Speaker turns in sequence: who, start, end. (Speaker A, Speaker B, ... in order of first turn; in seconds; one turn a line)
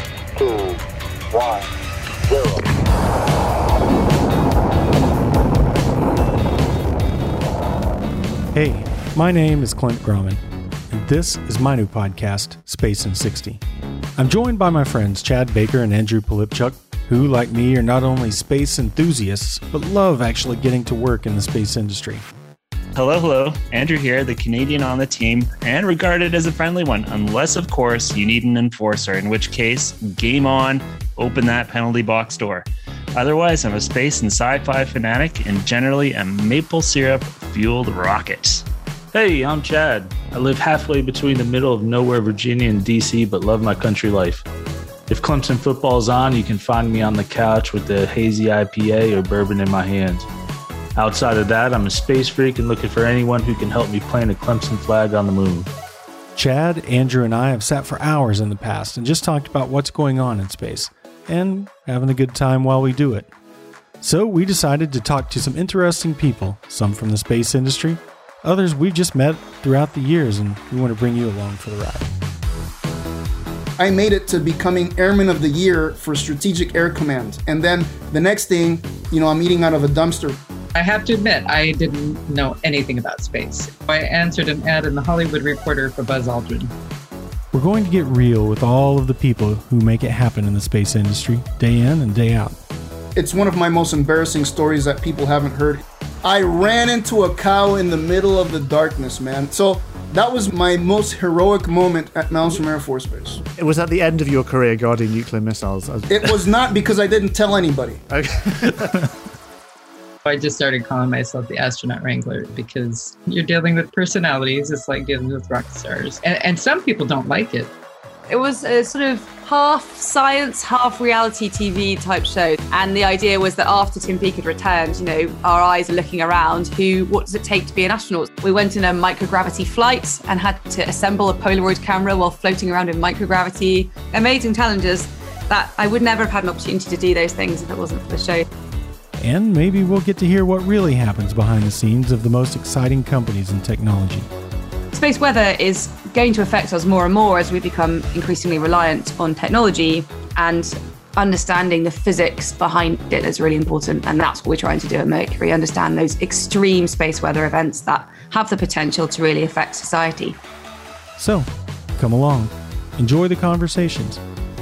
Speaker A: 8.5-13.6
Speaker A: 14.2-22.2
Speaker B: 22.9-38.6
Speaker C: 39.1-44.4
Speaker C: 45.1-50.3
Speaker C: 51.0-55.7
Speaker A: 56.3-63.3
Speaker A: 64.0-72.1
Speaker D: 73.8-80.4
Speaker E: 80.8-86.7
Speaker A: 87.5-92.6
Speaker D: 93.2-103.4
Speaker F: 103.6-106.5
Speaker D: 106.1-108.0
Speaker F: 108.1-109.1
Speaker E: 110.2-117.7
Speaker G: 118.3-138.4
Speaker A: 139.2-144.3
Speaker G: 144.9-160.4
Speaker A: 161.2-164.2